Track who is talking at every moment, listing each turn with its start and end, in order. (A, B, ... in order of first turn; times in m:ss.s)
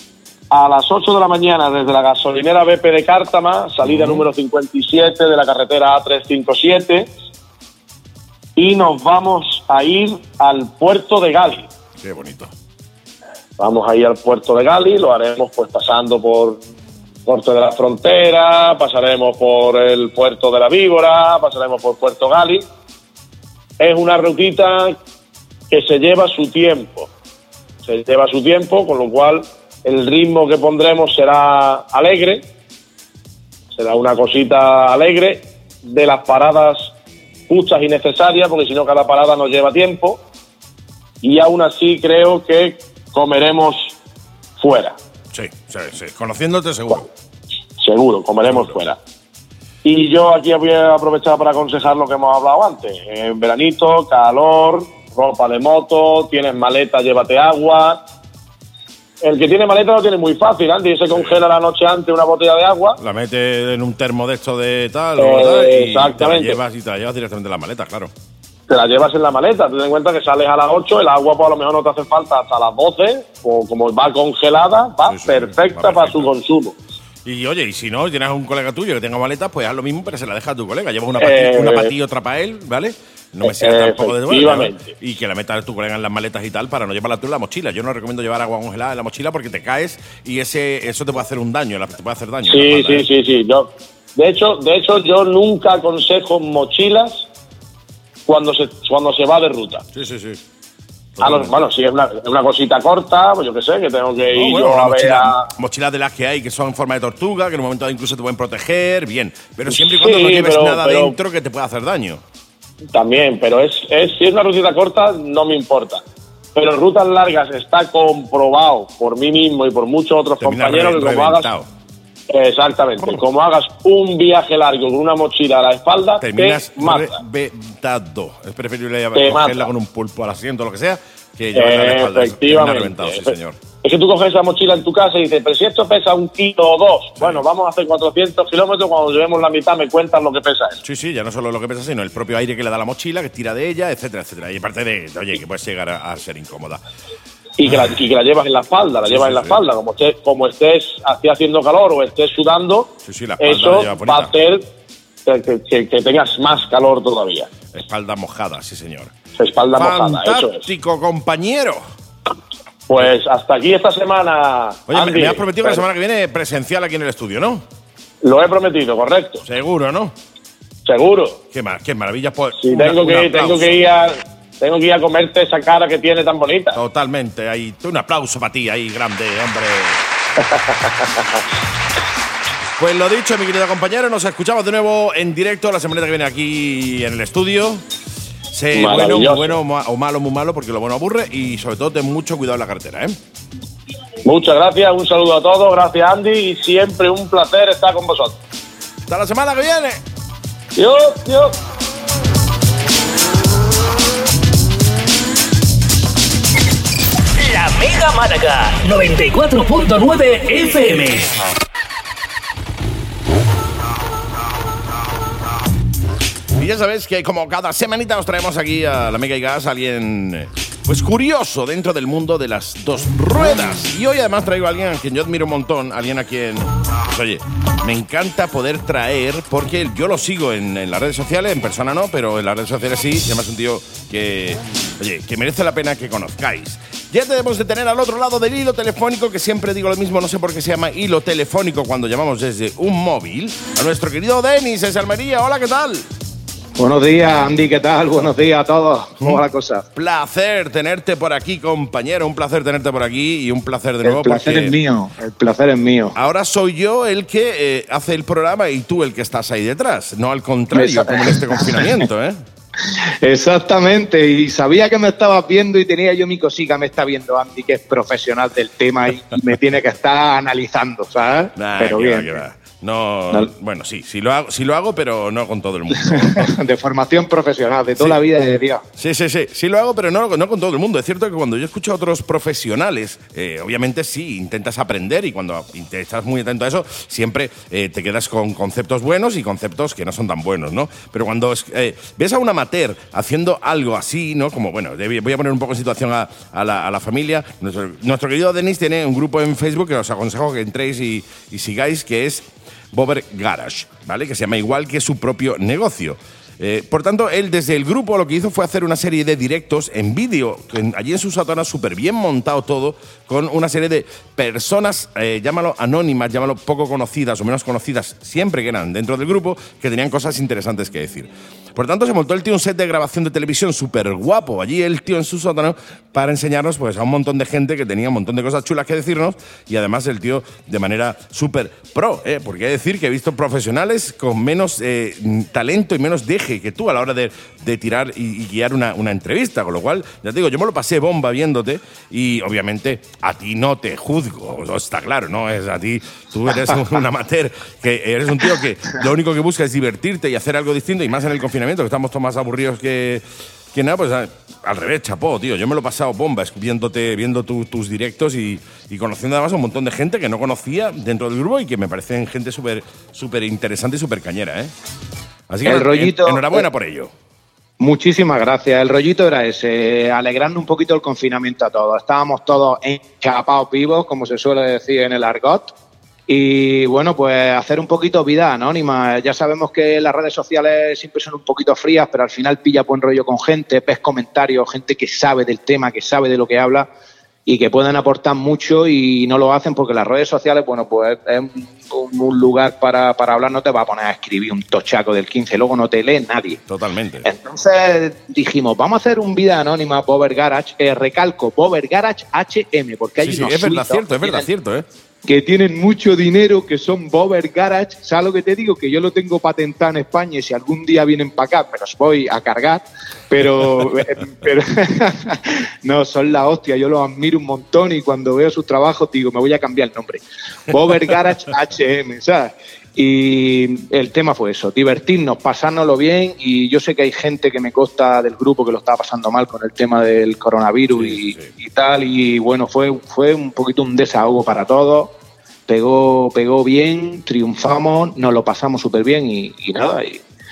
0:00.5-0:07.1 A
0:03.8-0:04.2 B
0:08.6-0:11.7 A
0:12.0-0:12.5 B
0:13.6-0:16.6 A
0:17.2-0:22.6 A
0:23.8-0:25.0 A
0:25.7-0:27.1 A
0:27.8-0:32.4 A
0:33.8-0:36.9 A
0:37.5-0:40.2 A
0:41.2-0:43.9 A
0:44.6-0:45.0 A
0:45.3-0:47.1 B
0:47.8-0:49.0 A
0:48.4-0:48.7 B
0:49.8-0:58.0 A
0:59.2-1:03.0 A
1:01.1-1:01.4 B
1:03.0-1:08.1 B
1:05.2-1:06.6 A
1:08.7-1:16.8 A
1:15.0-1:16.3 B
1:17.2-1:33.1 B
1:21.2-1:21.9 A
1:23.4-1:24.9 A
1:32.5-1:37.3 A
1:38.2-1:39.8 A
1:39.9-1:40.4 B
1:41.2-1:41.7 B
1:41.2-1:45.5 A
1:44.3-1:52.2 B
1:49.7-1:51.2 A
1:52.9-1:56.0 A
1:56.5-2:01.5 A
2:00.4-2:01.7 B
2:02.3-2:07.2 A
2:03.0-2:03.2 B
2:06.2-2:13.6 B
2:09.1-2:09.7 A
2:11.5-2:20.8 A
2:17.2-2:17.4 B
2:20.8-2:26.8 B
2:27.6-2:34.6 A
2:27.6-2:28.1 B
2:29.0-2:29.6 B
2:33.0-2:34.3 B
2:35.2-2:37.5 A
2:37.7-2:39.1 B
2:39.4-2:40.6 A
2:39.7-2:41.8 B
2:42.9-2:45.8 A
2:44.9-2:47.6 B
2:48.2-2:49.4 A
2:49.4-2:50.1 B
2:50.8-2:51.4 A
2:51.5-2:53.9 B
2:52.6-2:56.8 A
2:56.7-3:00.0 B
3:00.4-3:00.9 A
3:02.8-3:07.8 B
3:08.5-3:13.2 B
3:08.7-3:09.6 A
3:14.2-3:18.4 A
3:19.1-3:20.0 B
3:20.8-3:21.6 A
3:27.4-3:31.4 C
3:36.6-4:06.0 B
4:06.8-4:09.8 D
4:09.9-4:14.8 B
4:14.0-4:16.2 D
4:16.1-4:22.4 B
4:20.7-4:21.9 D
4:23.2-4:32.4 D
4:31.6-4:36.5 B
4:36.0-4:38.8 D
4:39.0-6:04.7 B
6:05.5-6:07.1 B
6:05.6-6:06.6 D
6:07.8-6:15.7 D
6:16.3-6:26.9 D
6:27.4-6:36.6 D
6:36.7-6:37.3 B
6:37.2-6:44.5 D
6:43.2-6:44.8 B
6:45.2-7:15.1 D
7:10.9-7:11.5 B
7:15.7-7:20.2 D